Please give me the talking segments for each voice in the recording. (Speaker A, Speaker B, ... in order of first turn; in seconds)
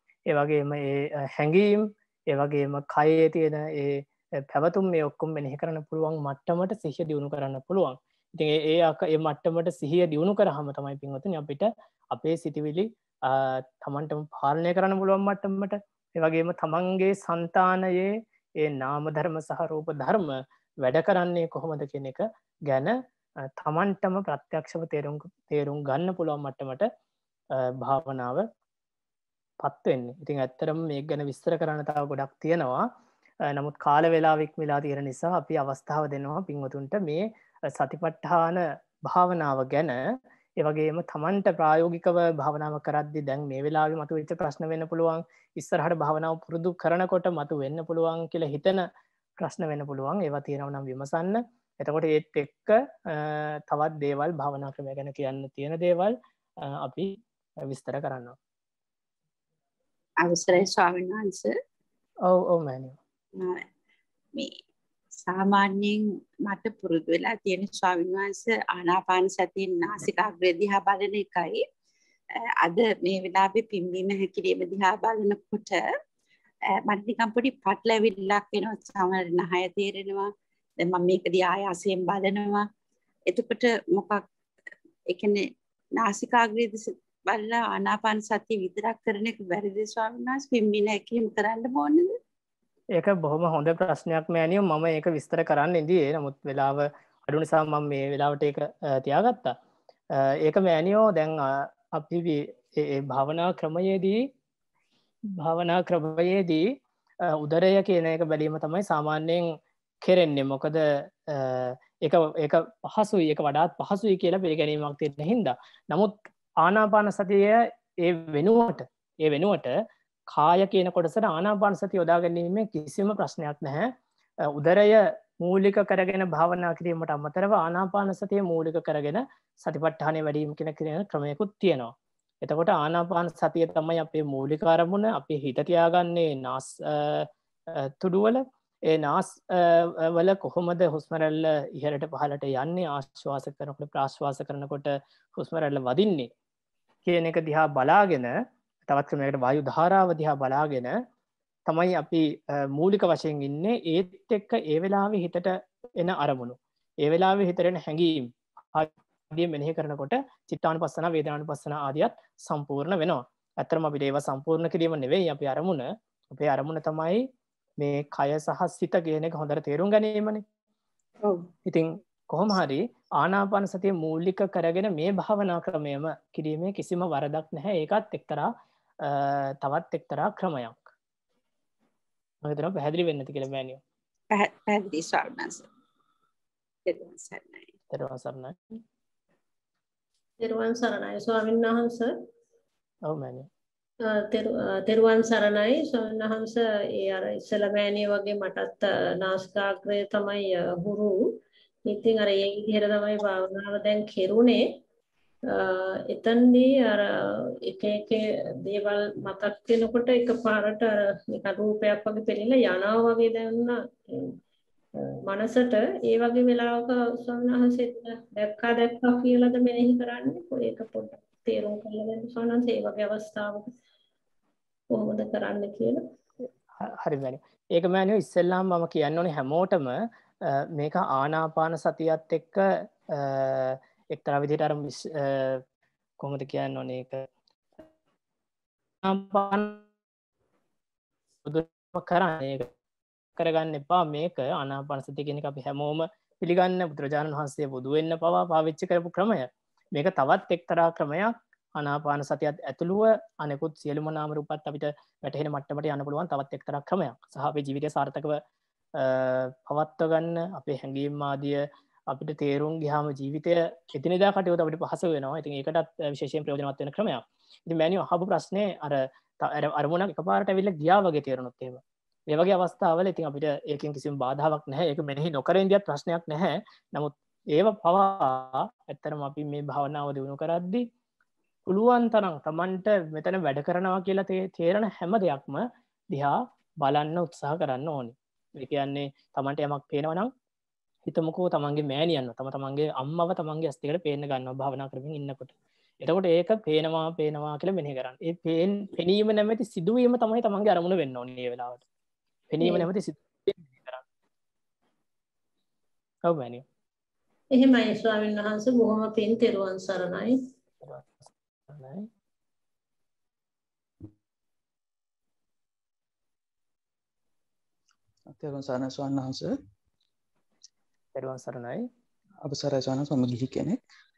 Speaker A: 0.3-22.9, 23.6-26.9, 27.6-28.5, 29.6-32.9, 33.5-40.0, 40.6-48.8, 49.4-58.4, 62.3-63.0, 93.0-99.5, 100.1-104.2, 105.4-106.7, 107.2-109.5, 110.0-119.7, 120.3-123.9, 124.5-137.3, 137.8-146.3, 147.1-148.3, 148.9-150.9, 151.7-167.2, 167.8-170.4, 171.7-178.5, 179.0-180.8, 182.4-183.8, 187.9-188.8, 193.1-193.5, 226.8-235.6, 236.2-237.3, 239.0-239.8, 241.4-242.7, 243.4-258.4, 259.0-280.9, 281.7-290.3, 291.1-301.8, 302.5-304.0, 306.3-306.6, 310.8-312.1, 321.1-321.9
Speaker B: 60.2-61.6, 63.4-63.6, 65.2-71.7, 72.6-75.9, 76.7-82.7, 83.3-84.2, 85.1-92.1, 184.3-185.7, 186.9-187.7
Speaker C: 190.4-192.2, 194.0-201.3, 201.9-204.7, 205.5-214.4, 215.3-223.7, 224.9-226.0, 307.5-310.4
Speaker D: 318.3-319.6, 322.4-323.8